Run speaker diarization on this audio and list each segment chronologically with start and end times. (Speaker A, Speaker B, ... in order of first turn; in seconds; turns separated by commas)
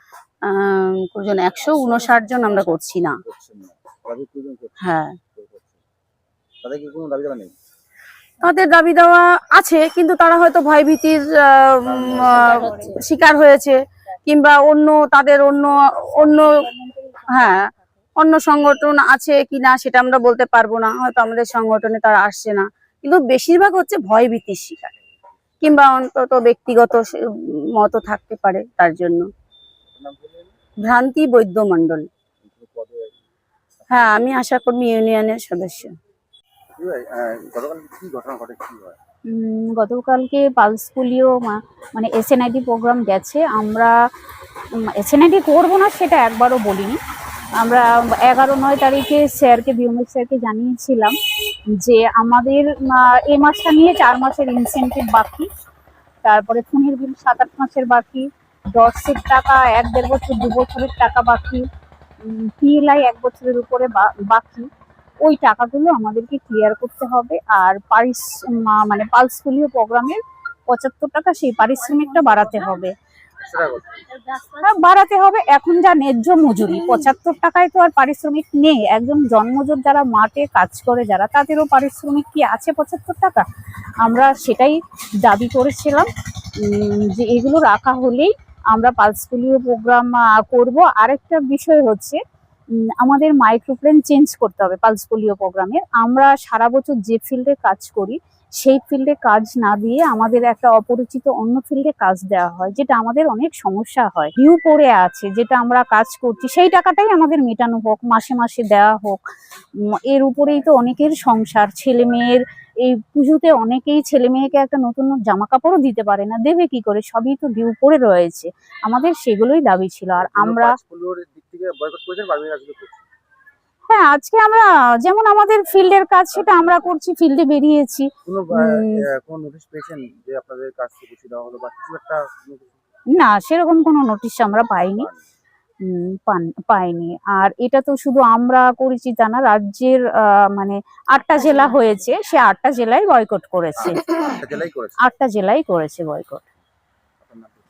Speaker A: 0.5-3.2, Speaker B: 3.2-5.7, Speaker A: 4.8-5.1, Speaker B: 6.6-7.5, Speaker A: 8.4-16.6, Speaker B: 11.8-12.7, Speaker C: 16.6-17.8, Speaker A: 17.3-17.6, Speaker A: 18.2-24.9, Speaker A: 25.6-27.1, Speaker A: 27.8-29.3, Speaker B: 29.9-30.5, Speaker A: 30.9-32.0, Speaker B: 32.4-33.1, Speaker B: 33.9-34.3, Speaker A: 33.9-35.9, Speaker B: 36.8-39.0, Speaker C: 39.3-43.9, Speaker C: 45.0-47.0, Speaker C: 47.6-51.1, Speaker C: 51.8-55.5, Speaker C: 56.2-61.6, Speaker C: 62.3-64.7, Speaker C: 65.2-70.2, Speaker C: 70.7-72.9, Speaker B: 73.4-73.9, Speaker C: 74.6-83.5, Speaker C: 84.0-86.1, Speaker C: 86.7-92.2, Speaker C: 93.0-109.2, Speaker C: 110.1-120.7, Speaker B: 120.2-123.0, Speaker C: 123.9-128.1, Speaker B: 126.3-126.8, Speaker B: 128.2-132.8, Speaker C: 128.6-128.9, Speaker C: 133.2-135.1, Speaker B: 134.6-135.2, Speaker C: 135.9-144.0, Speaker B: 143.8-145.0, Speaker C: 145.0-146.4, Speaker B: 147.2-147.6